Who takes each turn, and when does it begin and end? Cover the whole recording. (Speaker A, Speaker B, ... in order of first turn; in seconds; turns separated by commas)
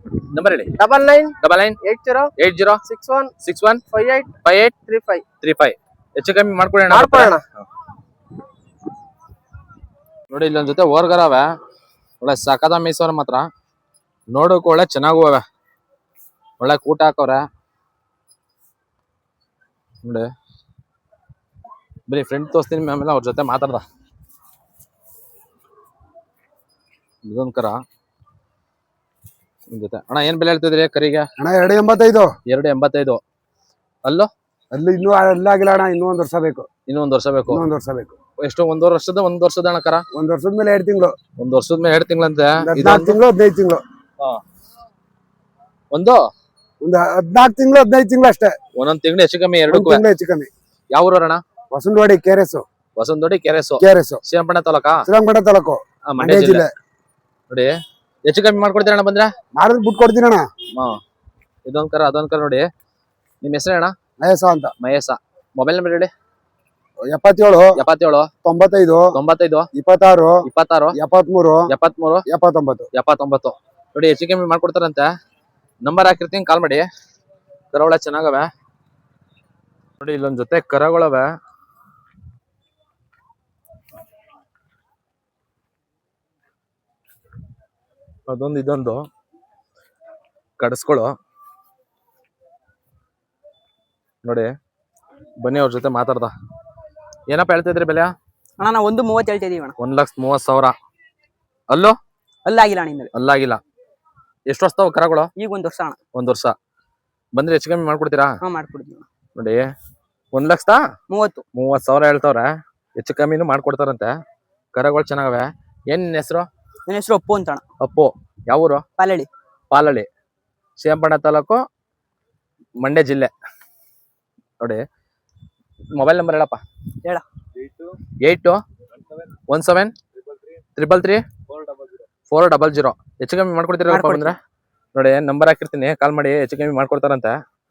Speaker A: 0.3-0.7, Speaker B: 0.8-2.3, Speaker A: 1.4-1.8, Speaker A: 2.4-2.8, Speaker B: 2.9-3.3, Speaker A: 3.4-3.8, Speaker B: 3.9-5.2, Speaker A: 4.5-4.7, Speaker A: 5.4-7.3, Speaker B: 6.9-7.4, Speaker A: 10.3-11.5, Speaker A: 12.2-13.5, Speaker A: 14.3-15.4, Speaker A: 16.6-17.4, Speaker A: 20.0-20.3, Speaker A: 22.1-23.8, Speaker A: 27.2-27.8, Speaker A: 29.7-31.3, Speaker C: 31.4-32.3, Speaker A: 32.5-33.2, Speaker A: 34.0-34.3, Speaker C: 34.7-36.7, Speaker A: 36.9-37.6, Speaker C: 37.5-38.2, Speaker A: 38.4-40.0, Speaker C: 40.1-41.1, Speaker A: 41.4-43.2, Speaker C: 42.6-43.8, Speaker A: 45.9-46.2, Speaker C: 46.8-48.5, Speaker A: 48.8-50.0, Speaker C: 49.7-50.5, Speaker A: 50.9-51.4, Speaker C: 51.7-52.6, Speaker A: 53.0-55.0, Speaker C: 53.8-54.2, Speaker C: 55.1-56.7, Speaker A: 56.1-56.6, Speaker A: 58.3-59.3, Speaker C: 59.6-60.5, Speaker A: 61.7-62.7, Speaker A: 63.4-64.0, Speaker C: 64.2-64.7, Speaker A: 64.8-66.1, Speaker C: 67.1-67.8, Speaker A: 67.8-68.3, Speaker C: 68.5-69.1, Speaker A: 69.1-69.7, Speaker C: 69.8-70.4, Speaker A: 70.5-71.0, Speaker C: 71.0-71.6, Speaker A: 71.7-72.2, Speaker C: 72.3-72.9, Speaker A: 72.9-75.1, Speaker A: 75.8-76.9, Speaker A: 77.7-78.5, Speaker A: 80.0-81.3, Speaker A: 88.3-89.0, Speaker A: 90.6-91.1, Speaker A: 94.2-94.5, Speaker A: 95.4-96.3, Speaker A: 97.3-98.1, Speaker D: 98.6-99.8, Speaker A: 99.8-100.8, Speaker A: 101.7-102.0, Speaker D: 102.5-103.1, Speaker A: 103.1-103.6, Speaker A: 104.5-105.3, Speaker D: 105.4-106.0, Speaker A: 106.1-106.5, Speaker A: 107.3-108.4, Speaker D: 108.4-109.0, Speaker A: 109.4-109.7, Speaker A: 110.3-110.8, Speaker D: 111.1-111.4, Speaker A: 111.5-114.1, Speaker A: 114.7-116.5, Speaker D: 116.9-117.6, Speaker A: 117.8-118.8, Speaker D: 119.0-119.3, Speaker A: 119.7-120.1, Speaker A: 120.8-121.6, Speaker A: 122.8-123.3, Speaker A: 126.0-126.6, Speaker A: 128.2-128.6, Speaker A: 129.5-129.9, Speaker A: 130.8-131.2, Speaker A: 132.3-134.4, Speaker D: 133.9-134.3, Speaker A: 134.9-137.4